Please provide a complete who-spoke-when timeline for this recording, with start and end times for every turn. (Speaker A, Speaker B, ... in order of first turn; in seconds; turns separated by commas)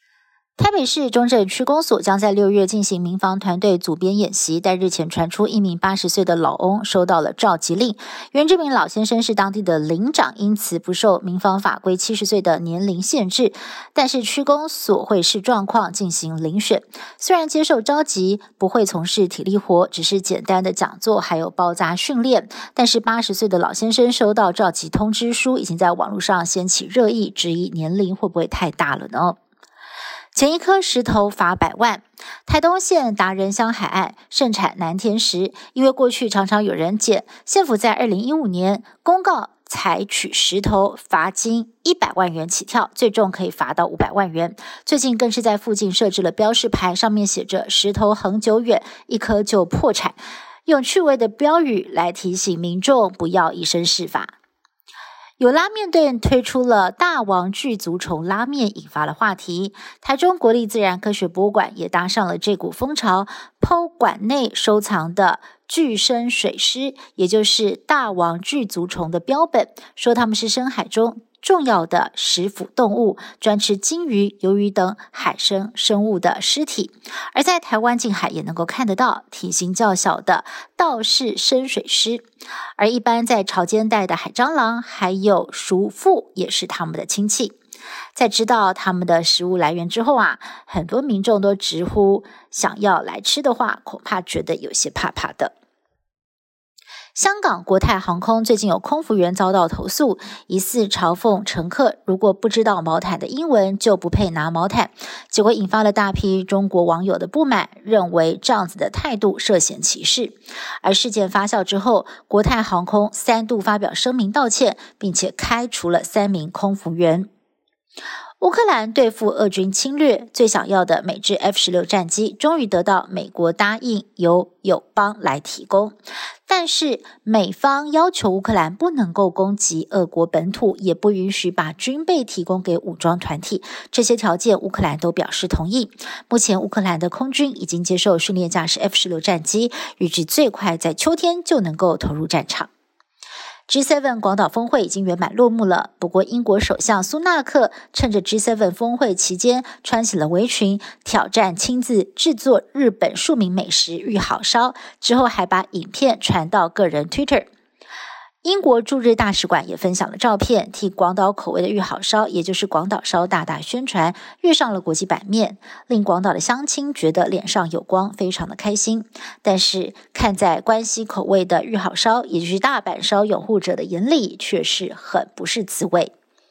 Speaker A: 0.6-29.4, Speaker A: 30.3-54.3, Speaker A: 55.4-82.2, Speaker A: 82.8-87.6, Speaker A: 88.2-95.5, Speaker A: 97.2-117.3, Speaker A: 118.4-125.9, Speaker A: 126.5-142.7, Speaker A: 143.7-157.5, Speaker A: 158.4-176.1